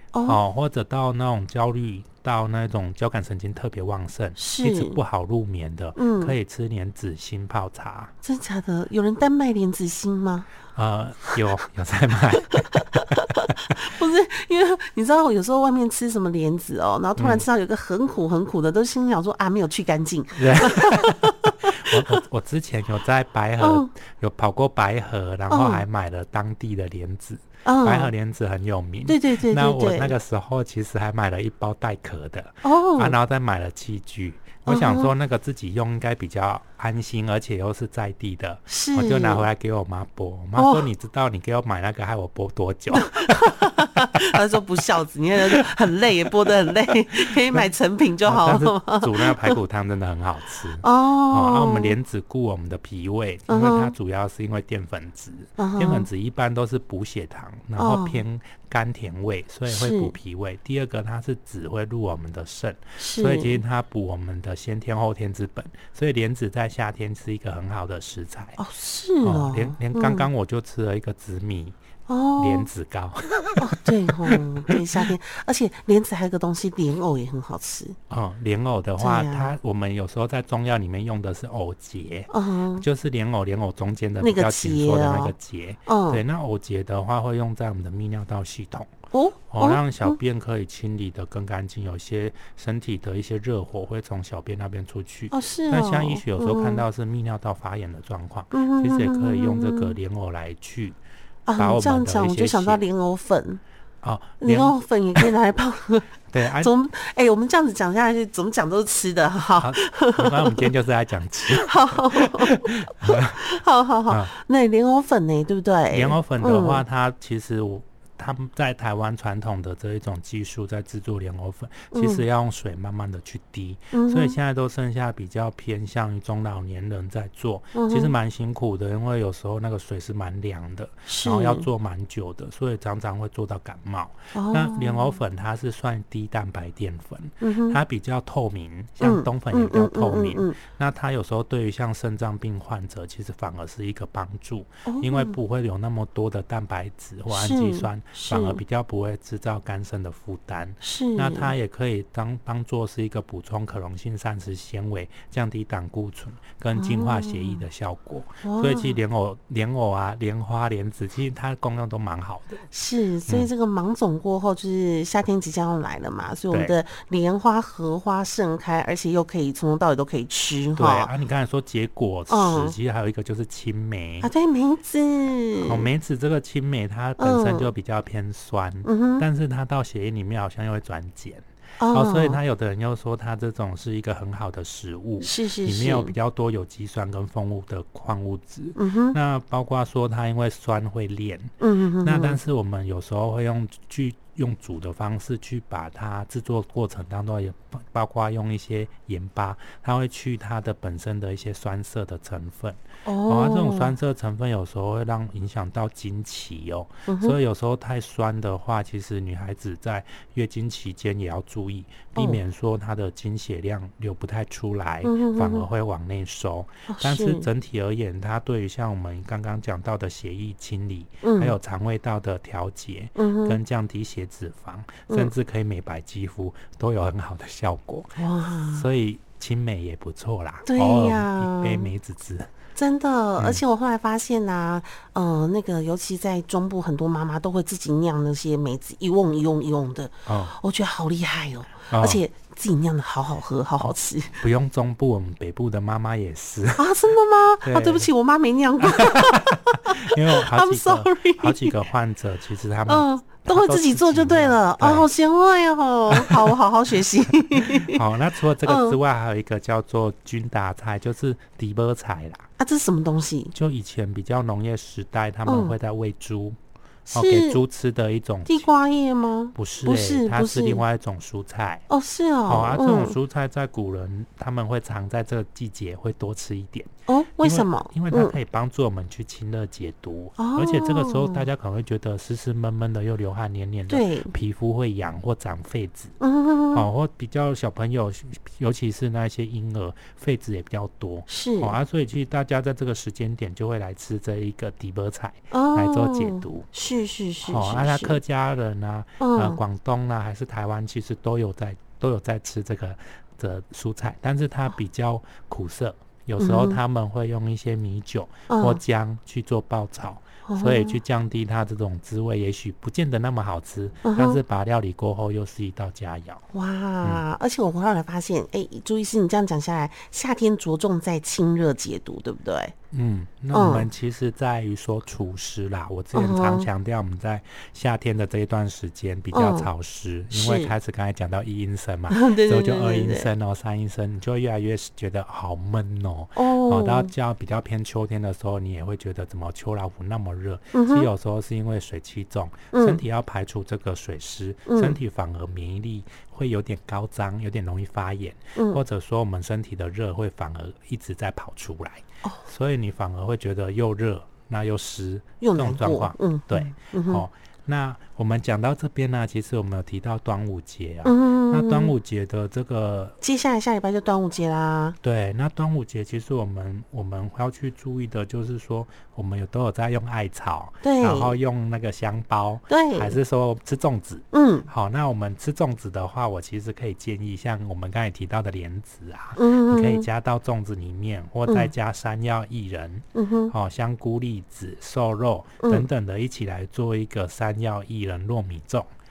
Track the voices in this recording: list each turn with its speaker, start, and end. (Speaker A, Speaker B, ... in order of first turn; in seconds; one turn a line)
Speaker A: 0.1-0.4
Speaker B: 0.2-8.1
Speaker A: 4.4-5.0
Speaker A: 6.0-6.3
Speaker A: 8.2-10.5
Speaker B: 10.7-13.8
Speaker A: 12.8-22.2
Speaker B: 17.2-17.4
Speaker B: 20.3-43.7
Speaker A: 23.6-23.9
Speaker A: 25.5-25.8
Speaker A: 27.6-28.1
Speaker A: 29.1-30.1
Speaker A: 32.6-33.1
Speaker A: 34.6-35.1
Speaker A: 38.7-39.5
Speaker A: 40.5-40.9
Speaker A: 43.0-49.6
Speaker B: 45.6-46.5
Speaker B: 47.2-47.7
Speaker B: 48.2-68.6
Speaker A: 50.8-51.9
Speaker A: 53.5-53.9
Speaker A: 55.6-56.1
Speaker A: 57.8-58.2
Speaker A: 59.7-60.1
Speaker A: 63.0-63.6
Speaker A: 68.6-70.3
Speaker B: 69.2-71.8
Speaker A: 72.1-72.7
Speaker B: 72.4-74.8
Speaker A: 73.6-78.0
Speaker B: 78.1-88.9
Speaker A: 79.0-79.5
Speaker A: 82.3-82.8
Speaker A: 84.2-85.3
Speaker A: 85.9-86.2
Speaker A: 89.1-90.2
Speaker B: 89.5-101.0
Speaker A: 95.3-96.8
Speaker A: 98.5-100.0
Speaker A: 101.5-103.6
Speaker B: 101.6-102.8
Speaker B: 104.0-105.3
Speaker A: 104.4-110.7
Speaker B: 106.3-106.7
Speaker B: 109.5-113.4
Speaker A: 111.6-116.8
Speaker B: 115.9-162.6
Speaker A: 121.9-122.2
Speaker A: 123.9-124.4
Speaker A: 127.7-128.1
Speaker A: 131.1-131.7
Speaker A: 134.3-135.1
Speaker A: 137.4-137.8
Speaker A: 139.0-140.6
Speaker A: 144.8-145.4
Speaker A: 147.3-148.6
Speaker A: 150.8-151.5
Speaker A: 156.8-157.6
Speaker A: 158.4-159.0
Speaker A: 162.7-171.1
Speaker B: 166.5-166.8
Speaker B: 170.8-174.3
Speaker A: 172.3-172.8
Speaker A: 174.2-175.9
Speaker B: 175.6-228.2
Speaker A: 177.2-177.7
Speaker A: 178.8-179.2
Speaker A: 181.8-182.4
Speaker A: 185.2-186.1
Speaker A: 188.8-189.2
Speaker A: 191.6-192.4
Speaker A: 203.0-203.9
Speaker A: 207.1-207.4
Speaker A: 215.0-215.7
Speaker A: 216.9-217.5
Speaker A: 221.2-221.5
Speaker A: 223.2-223.6
Speaker A: 228.2-228.8
Speaker B: 228.7-232.5
Speaker A: 230.7-231.9
Speaker A: 232.7-244.4
Speaker B: 240.2-240.6
Speaker B: 241.9-242.2
Speaker B: 243.8-246.9
Speaker A: 246.8-251.8
Speaker B: 247.6-248.1
Speaker B: 248.8-255.1
Speaker A: 252.9-258.0
Speaker B: 256.1-256.6
Speaker B: 257.6-262.4
Speaker A: 258.6-258.9
Speaker A: 262.6-263.5
Speaker B: 263.5-266.6
Speaker A: 265.4-265.8
Speaker A: 267.1-267.6
Speaker B: 267.1-268.6
Speaker A: 268.5-270.8
Speaker B: 269.5-271.9
Speaker A: 271.9-273.1
Speaker B: 272.5-276.9
Speaker A: 277.1-278.3
Speaker B: 277.4-286.1
Speaker A: 280.4-281.5
Speaker A: 283.9-284.3
Speaker A: 286.2-286.9
Speaker B: 286.7-296.7
Speaker A: 291.3-291.8
Speaker A: 295.5-298.2
Speaker B: 297.4-316.4
Speaker A: 299.2-299.6
Speaker A: 306.4-306.8
Speaker A: 308.5-308.8
Speaker A: 310.4-311.0
Speaker A: 314.0-314.4
Speaker A: 316.5-322.7
Speaker B: 322.9-363.1
Speaker A: 323.5-323.9
Speaker A: 326.1-326.7
Speaker A: 329.3-329.7
Speaker A: 330.3-330.7
Speaker A: 332.1-333.3
Speaker A: 336.4-337.1
Speaker A: 340.7-341.1
Speaker A: 342.7-343.0
Speaker A: 344.7-345.0
Speaker A: 355.4-357.2
Speaker A: 361.0-361.9
Speaker A: 363.2-365.0
Speaker B: 365.0-388.9
Speaker A: 370.8-371.4
Speaker A: 372.7-373.2
Speaker A: 374.3-374.7
Speaker A: 379.4-380.1
Speaker A: 383.1-383.5
Speaker A: 385.6-385.9